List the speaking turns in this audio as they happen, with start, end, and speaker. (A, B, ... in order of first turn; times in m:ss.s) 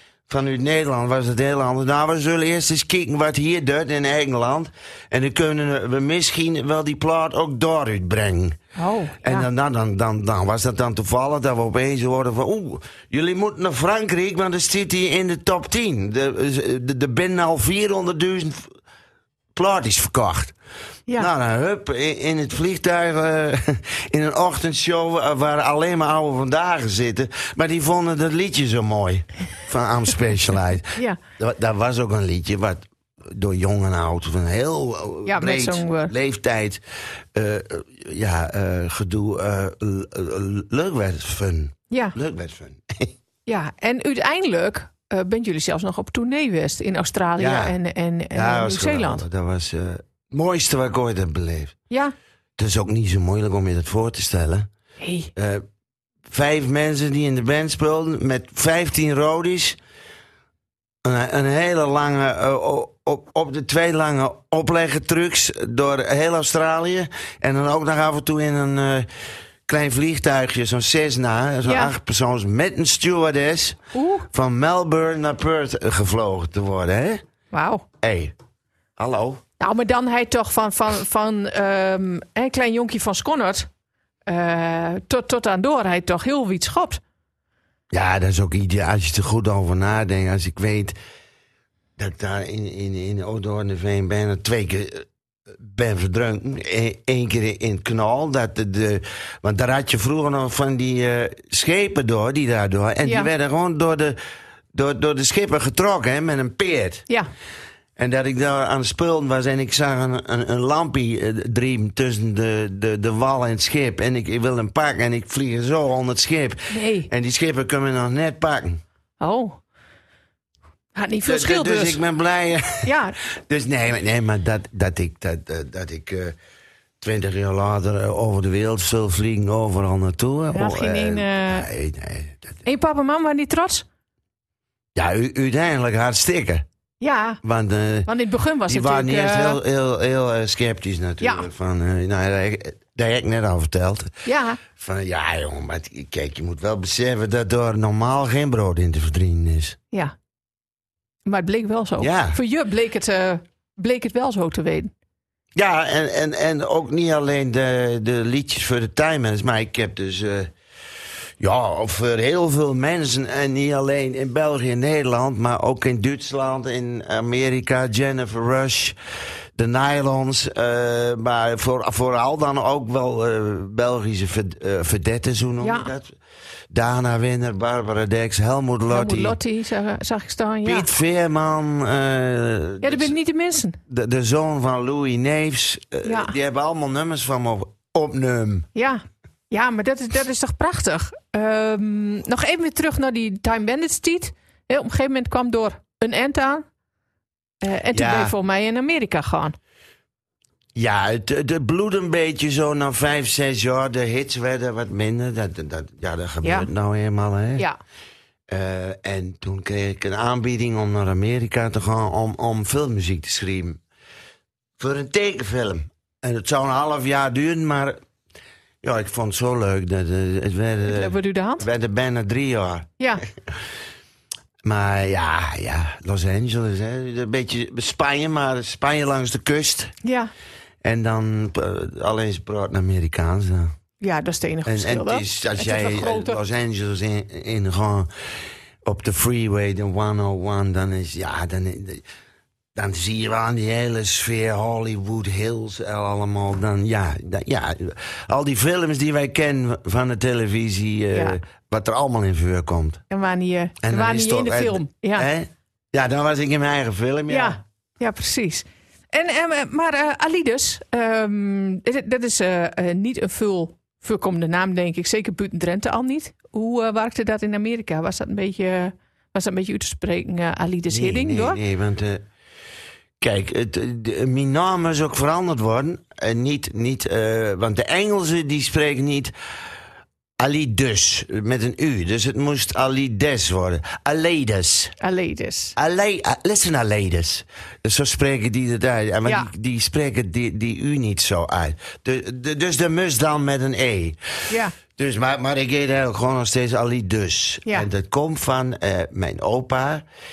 0:00.3-0:08.6 A
0:08.8-0:09.5 B
0:09.2-0:18.7 A
0:19.6-0:20.6 A
0:21.2-0:36.8 A
0:35.2-0:36.1 B
0:37.3-0:43.1 A
0:41.9-0:42.2 B
0:43.5-0:49.2 B
0:47.4-0:47.8 A
0:48.3-0:51.8 A
0:52.6-0:54.7 A
0:55.0-0:55.3 B
0:55.4-0:55.6 A
0:56.3-0:59.8 A
1:01.0-1:09.1 A
1:09.7-1:17.2 A
1:11.6-1:11.9 B
1:13.9-1:14.3 B
1:17.5-1:17.8 B
1:18.0-1:18.3 A
1:19.0-1:19.4 A
1:19.6-1:23.7 B
1:24.3-1:27.0 B
1:27.9-1:31.0 A
1:32.0-1:35.1 A
1:35.6-1:44.2 A
1:43.0-1:43.3 B
1:44.7-1:47.1 A
1:48.0-1:58.8 A
1:56.7-1:57.1 B
1:59.2-1:59.6 B
2:01.0-2:02.0 B
2:01.2-2:06.4 A
2:02.8-2:03.2 B
2:07.0-2:12.6 A
2:10.5-2:11.6 B
2:12.6-2:13.9 B
2:14.9-2:16.6 A
2:17.0-2:17.4 B
2:17.4-2:18.1 A
2:18.1-2:19.6 B
2:18.7-2:29.8 A
2:21.2-2:21.5 B
2:24.3-2:24.6 B
2:31.3-2:34.9 B
2:32.0-2:32.4 A
2:35.6-2:40.5 A
2:41.4-2:49.0 A
2:49.6-2:56.1 A
2:55.6-2:55.9 B
2:56.7-2:59.4 A
2:58.9-3:00.9 B
3:00.6-3:03.1 A
3:02.8-3:03.8 B
3:03.9-3:08.7 A
3:06.1-3:06.3 B
3:08.8-3:16.6 B
3:17.6-3:19.6 B
3:17.9-3:18.3 A
3:20.8-3:27.6 A
3:26.4-3:26.7 B
3:28.5-3:33.8 A
3:34.8-3:38.0 A
3:38.8-3:42.9 A
3:40.9-3:41.6 B
3:44.6-3:49.9 A
3:50.0-3:50.3 B
3:50.8-3:53.7 A
3:54.0-3:56.4 B
3:54.6-3:58.1 A
3:58.8-4:02.0 A
4:02.8-4:13.0 A
4:11.1-4:11.4 B
4:13.1-4:15.3 B
4:13.8-4:17.6 A
4:17.3-4:31.6 B
4:30.9-4:32.3 A
4:33.2-4:39.3 A
4:40.4-4:44.9 A
4:45.0-4:45.8 B
4:45.8-4:54.2 A
4:49.2-4:49.5 B
4:54.5-4:54.7 B
4:55.0-5:00.0 A